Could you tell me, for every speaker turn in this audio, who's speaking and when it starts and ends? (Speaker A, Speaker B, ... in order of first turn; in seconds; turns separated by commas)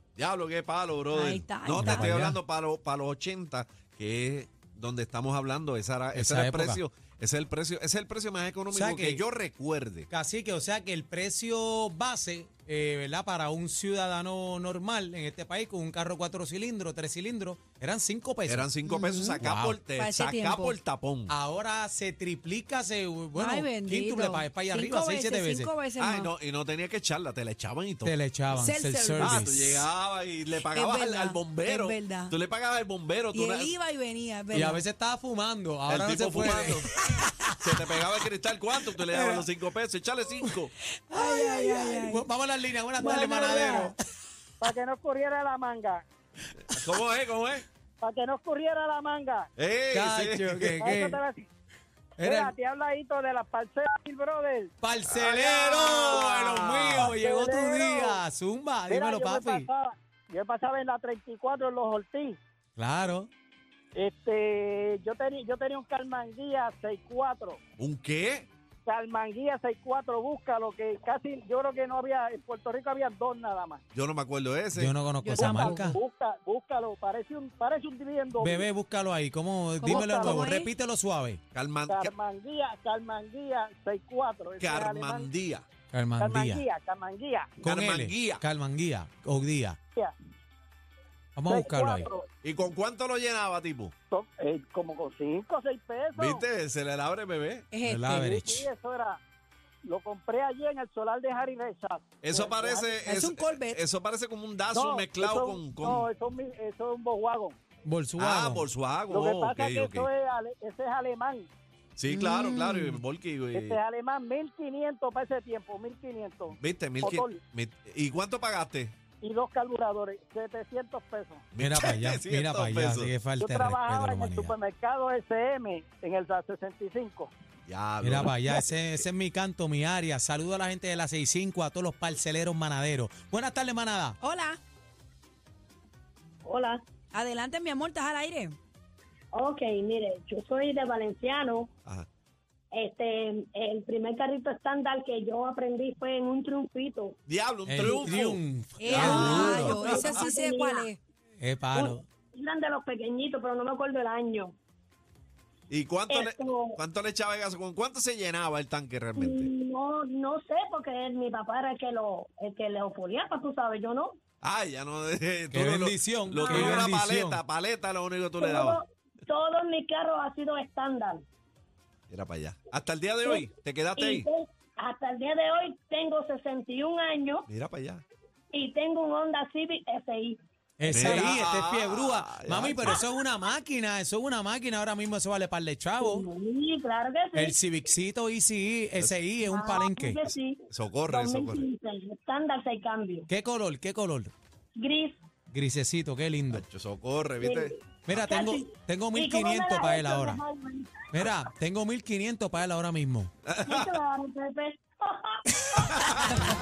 Speaker A: 0.2-10.1, Speaker B: 1.1-2.2, Speaker C: 1.7-2.4, Speaker C: 6.1-6.8, Speaker C: 8.7-9.2, Speaker C: 10.1-18.7, Speaker A: 18.4-21.3, Speaker B: 18.9-19.4, Speaker C: 19.4-19.8, Speaker B: 20.0-20.8, Speaker C: 21.3-25.7, Speaker B: 23.3-26.3, Speaker A: 26.0-28.2, Speaker C: 28.0-29.9, Speaker B: 28.5-29.6, Speaker A: 29.2-33.7, Speaker B: 30.6-32.4, Speaker B: 33.3-34.8, Speaker C: 34.5-37.6, Speaker A: 35.9-36.9, Speaker A: 37.6-40.7, Speaker C: 39.1-39.4, Speaker B: 41.1-42.2, Speaker C: 41.1-43.9, Speaker D: 43.0-43.9, Speaker E: 43.0-43.8, Speaker D: 44.6-46.0, Speaker A: 46.7-47.6, Speaker D: 48.0-49.5, Speaker A: 49.6-50.8, Speaker C: 49.9-51.2, Speaker D: 50.8-51.5, Speaker C: 52.2-52.5, Speaker D: 52.2-54.7, Speaker C: 54.8-59.7, Speaker A: 55.1-57.1, Speaker D: 57.0-58.2, Speaker D: 58.9-62.4, Speaker C: 62.8-63.3, Speaker D: 63.9-67.6, Speaker A: 67.8-68.5, Speaker D: 68.8-73.8, Speaker A: 73.9-74.9, Speaker C: 74.7-76.0, Speaker B: 75.2-76.0, Speaker D: 75.3-78.7, Speaker C: 78.4-81.4, Speaker B: 79.8-80.7, Speaker D: 79.8-80.5, Speaker A: 81.5-82.1, Speaker D: 81.9-85.3, Speaker A: 84.6-85.7, Speaker C: 85.9-86.6, Speaker D: 86.2-87.5, Speaker C: 87.6-89.8, Speaker A: 87.6-88.4, Speaker C: 91.3-92.1, Speaker D: 91.5-92.2, Speaker A: 92.4-93.9, Speaker D: 94.1-96.4, Speaker A: 96.2-97.7, Speaker B: 97.7-98.3, Speaker C: 97.8-98.7, Speaker D: 98.1-99.2, Speaker D: 99.8-103.0, Speaker A: 102.2-106.0, Speaker B: 103.0-103.8, Speaker D: 104.7-107.5, Speaker C: 107.8-108.7, Speaker A: 108.2-110.1, Speaker D: 109.1-111.5, Speaker A: 112.0-113.8, Speaker B: 112.1-113.0, Speaker D: 113.5-117.4, Speaker A: 116.6-118.9, Speaker D: 119.2-121.4, Speaker A: 121.5-123.1, Speaker C: 121.6-124.5, Speaker D: 123.4-127.3, Speaker A: 127.7-129.0, Speaker C: 128.0-134.2, Speaker B: 134.2-134.6, Speaker E: 136.4-136.8, Speaker B: 137.1-138.6, Speaker E: 139.3-141.7, Speaker E: 142.7-147.2, Speaker A: 147.3-150.3, Speaker C: 147.7-149.8, Speaker B: 148.8-151.0, Speaker E: 149.0-150.9, Speaker C: 151.4-152.1, Speaker E: 151.7-154.5, Speaker A: 155.7-159.5, Speaker E: 156.1-156.8, Speaker E: 159.2-164.2, Speaker A: 164.4-168.8, Speaker C: 165.5-167.4, Speaker E: 166.4-166.7, Speaker E: 168.4-171.2, Speaker A: 172.1-174.3, Speaker E: 173.2-177.4, Speaker A: 177.5-178.0, Speaker E: 178.5-180.4, Speaker C: 180.8-186.2, Speaker A: 180.9-183.0, Speaker E: 186.0-187.6, Speaker C: 187.3-190.3, Speaker E: 189.4-193.2, Speaker A: 190.7-191.7, Speaker C: 193.3-194.3, Speaker E: 194.8-195.2, Speaker C: 195.5-196.6, Speaker A: 196.5-197.8, Speaker E: 197.4-201.3, Speaker C: 198.1-200.4, Speaker C: 201.1-203.3, Speaker A: 203.4-204.0, Speaker E: 203.6-205.4, Speaker A: 205.8-206.4